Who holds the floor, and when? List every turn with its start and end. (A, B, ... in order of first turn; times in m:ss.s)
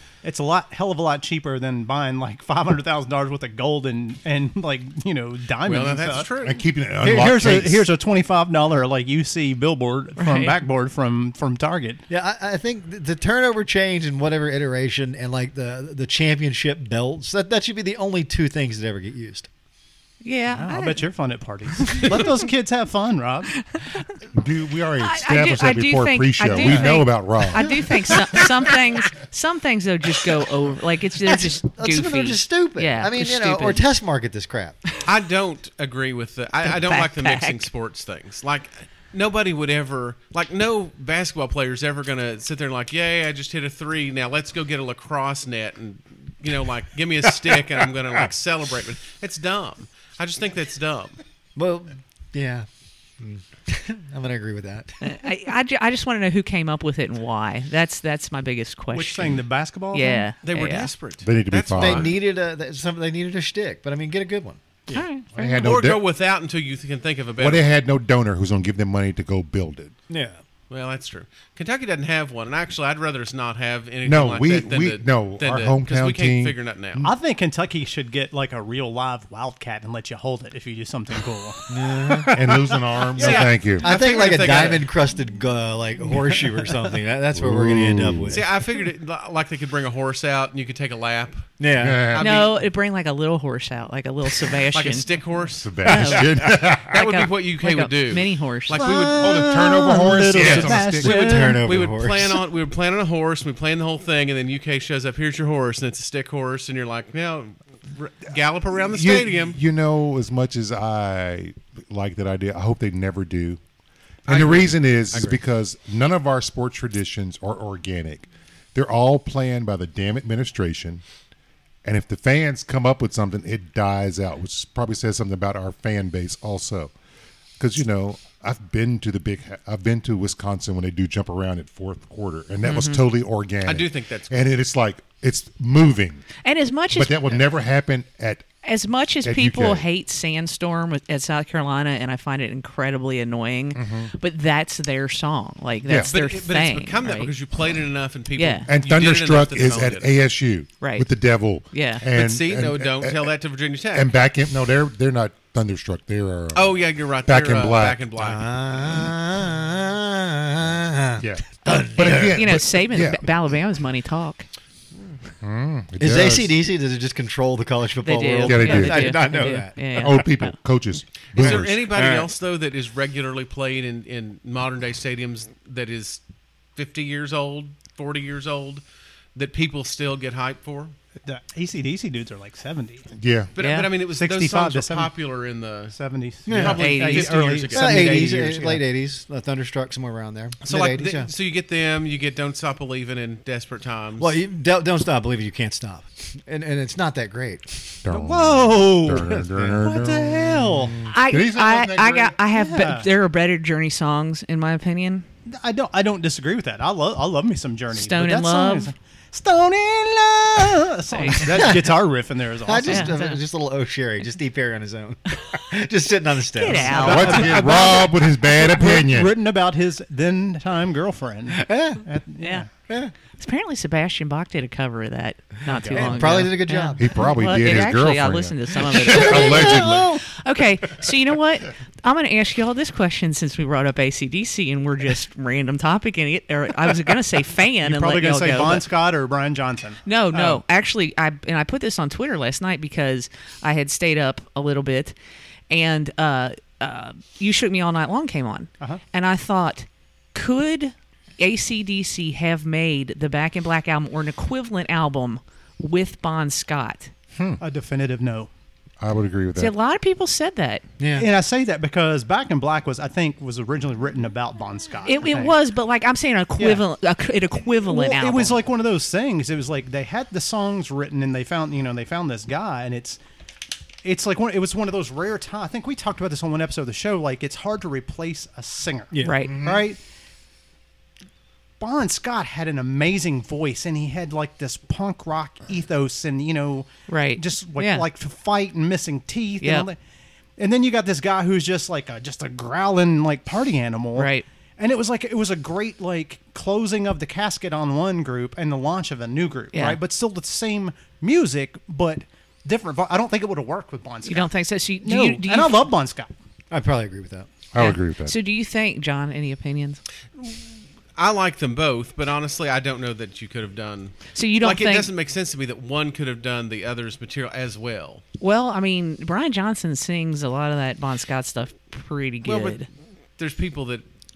0:00.2-0:06.3 A
0:05.6-0:06.6 B
0:06.4-0:07.8 C
0:07.0-0:12.0 A
0:10.2-0:10.6 D
0:12.1-0:19.5 E
0:20.2-0:21.1 D
0:20.5-0:23.6 A
0:21.8-0:22.2 D
0:23.5-0:24.1 D
0:24.3-0:28.5 C
0:25.0-0:33.8 D
0:26.6-0:26.9 A
0:31.3-0:35.0 E
0:35.0-0:51.2 B
0:36.6-0:37.7 D
0:51.6-0:52.7 E
0:53.2-0:55.0 E
0:55.0-0:59.3 D
0:58.9-1:00.3 A
0:59.9-1:00.9 D
1:00.4-1:02.2 B
1:01.2-1:02.1 C
1:01.8-1:05.0 E
1:04.9-1:05.7 D
1:05.4-1:06.0 C
1:05.6-1:07.7 B
1:07.4-1:09.9 C
1:10.1-1:10.4 E
1:10.7-1:17.0 B
1:14.0-1:17.1 C
1:17.0-1:22.6 A
1:21.7-1:22.4 E
1:22.3-1:23.9 C
1:23.2-1:23.5 A
1:23.2-1:24.9 B
1:23.2-1:28.4 E
1:26.2-1:26.7 A
1:27.3-1:28.4 C
1:28.3-1:32.6 B
1:31.6-1:32.0 E
1:31.8-1:32.3 C
1:32.2-1:35.1 D
1:34.7-1:39.4 B
1:35.6-1:37.0 C
1:35.8-1:38.9 D
1:38.7-1:41.7 A
1:39.2-1:41.2 C
1:40.3-1:42.4 E
1:40.4-1:49.6 B
1:48.9-1:53.6 C
1:54.3-1:55.4 B
1:54.3-2:01.0 C
2:01.8-2:06.9 C
2:07.6-2:16.2 C
2:12.6-2:13.0 D
2:13.6-2:14.3 B
2:16.4-2:17.4 D
2:16.9-2:18.5 C
2:18.6-2:27.3 D
2:19.2-2:19.9 C
2:23.8-2:24.1 C
2:26.1-2:30.1 B
2:28.4-2:28.7 D
2:28.7-2:33.3 C
2:30.8-2:31.1 D
2:31.7-2:32.0 D
2:32.1-2:34.1 B
2:33.9-2:38.0 C
2:36.5-2:38.4 B
2:38.2-2:42.4 E
2:41.2-2:43.2 C
2:41.6-2:44.4 D
2:45.4-2:46.6 C
2:46.0-2:50.2 E
2:48.0-2:50.6 D
2:48.4-2:52.0 C
2:51.4-2:56.2 B
2:51.4-2:52.3 E
2:56.8-2:58.8 B
2:59.4-3:01.0 B
3:01.2-3:03.1 A
3:03.1-3:03.5 C
3:03.6-3:05.9 B
3:03.6-3:03.9 D
3:04.1-3:05.1 A
3:05.9-3:08.8 A
3:06.5-3:06.8 E
3:06.5-3:08.6 B
3:06.8-3:07.4 D
3:07.7-3:11.3 E
3:10.6-3:14.4 B
3:14.2-3:18.0 E
3:18.0-3:22.4 C
3:18.1-3:21.0 A
3:19.1-3:21.0 E
3:21.1-3:25.3 D
3:22.5-3:23.1 A
3:25.5-3:33.2 A
3:27.9-3:28.9 D
3:31.1-3:31.7 D
3:31.4-3:32.0 E
3:32.6-3:37.9 E
3:32.9-3:33.4 D
3:36.6-3:37.9 D
3:36.9-3:39.3 C
3:36.9-3:42.7 A
3:41.6-3:42.0 E
3:42.4-3:42.7 D
3:43.4-3:58.8 D
3:45.8-3:46.5 A
3:45.9-3:47.3 E
3:47.0-3:50.2 C
3:49.0-3:50.1 E
3:57.8-4:00.6 A
4:00.0-4:05.1 D
4:05.7-4:17.1 D
4:17.4-4:17.6 C
4:17.6-4:18.5 A
4:19.0-4:19.7 C
4:19.6-4:20.8 D
4:21.0-4:21.3 E
4:21.1-4:25.6 A
4:25.0-4:28.6 D
4:26.6-4:26.8 A
4:27.9-4:33.2 A
4:34.0-4:40.0 A
4:39.1-4:39.6 E
4:39.2-4:39.6 D
4:39.4-4:39.8 C
4:41.8-4:50.0 A
4:47.1-4:48.1 D
4:49.6-4:49.9 D
4:50.6-5:04.5 A
4:54.1-4:54.4 D
4:59.7-5:00.0 D
5:04.2-5:05.9 D
5:05.0-5:06.3 A
5:06.7-5:07.5 E
5:07.7-5:08.4 C
5:07.8-5:10.0 D
5:11.2-5:18.2 B
5:14.3-5:15.1 D
5:18.4-5:22.9 D
5:22.4-5:22.8 B
5:23.4-5:24.0 B